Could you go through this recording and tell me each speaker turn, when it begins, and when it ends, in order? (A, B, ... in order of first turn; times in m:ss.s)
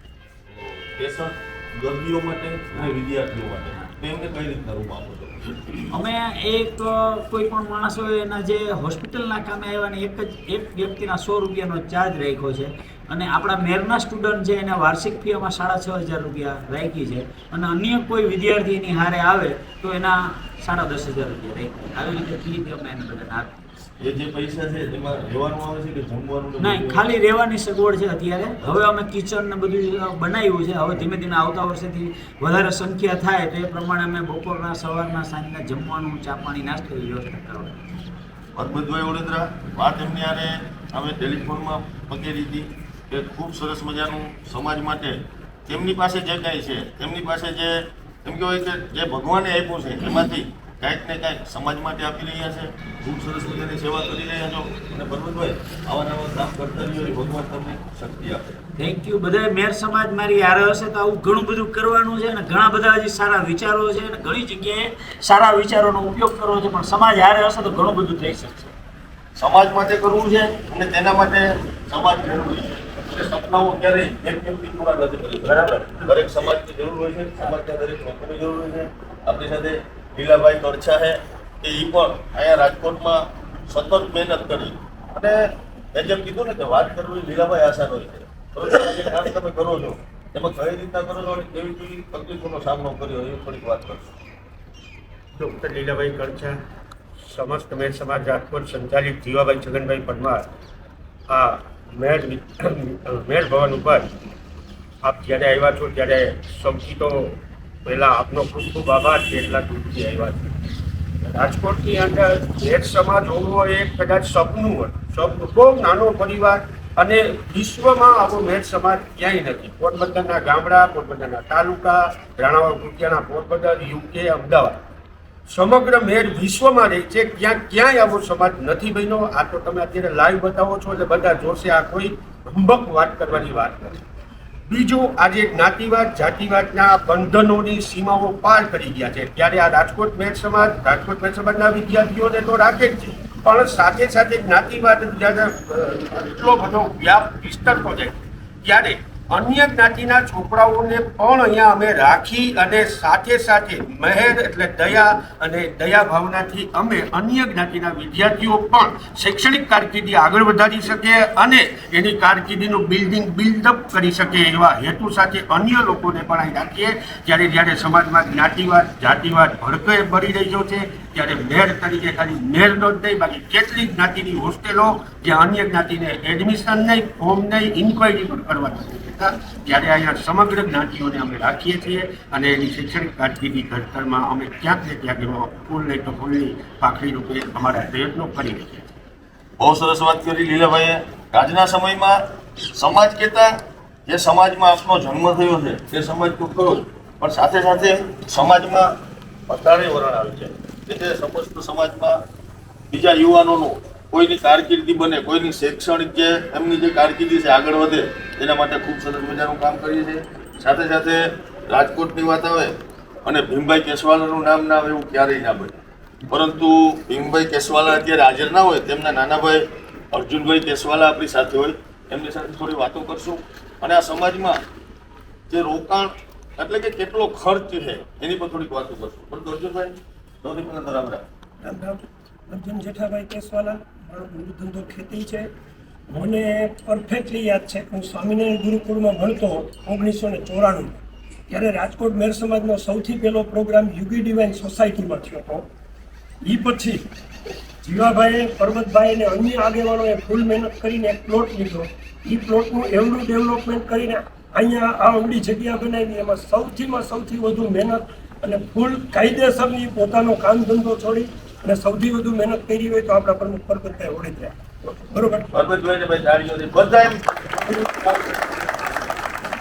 0:00.5-0:05.9 A
0:05.9-0:23.5 B
0:24.0-0:27.0 A
0:26.6-0:37.8 B
0:38.5-0:58.6 A
0:58.8-1:08.7 B
1:09.4-1:34.0 A
1:35.4-1:36.6 C
1:37.2-1:40.4 C
1:41.3-1:44.1 C
1:45.0-1:50.5 C
1:51.2-2:04.8 C
2:05.5-2:14.0 C
2:14.7-3:08.9 C
3:09.6-3:12.2 A
3:12.7-3:18.9 A
3:19.5-3:22.2 A
3:22.9-3:32.7 A
3:33.2-3:35.8 A
3:36.3-3:44.6 A
3:45.5-3:51.2 A
3:51.6-3:55.5 D
3:56.1-4:05.6 D
4:06.4-4:07.1 D
4:07.8-4:25.5 D
4:25.5-4:27.2 A
4:27.6-4:28.5 D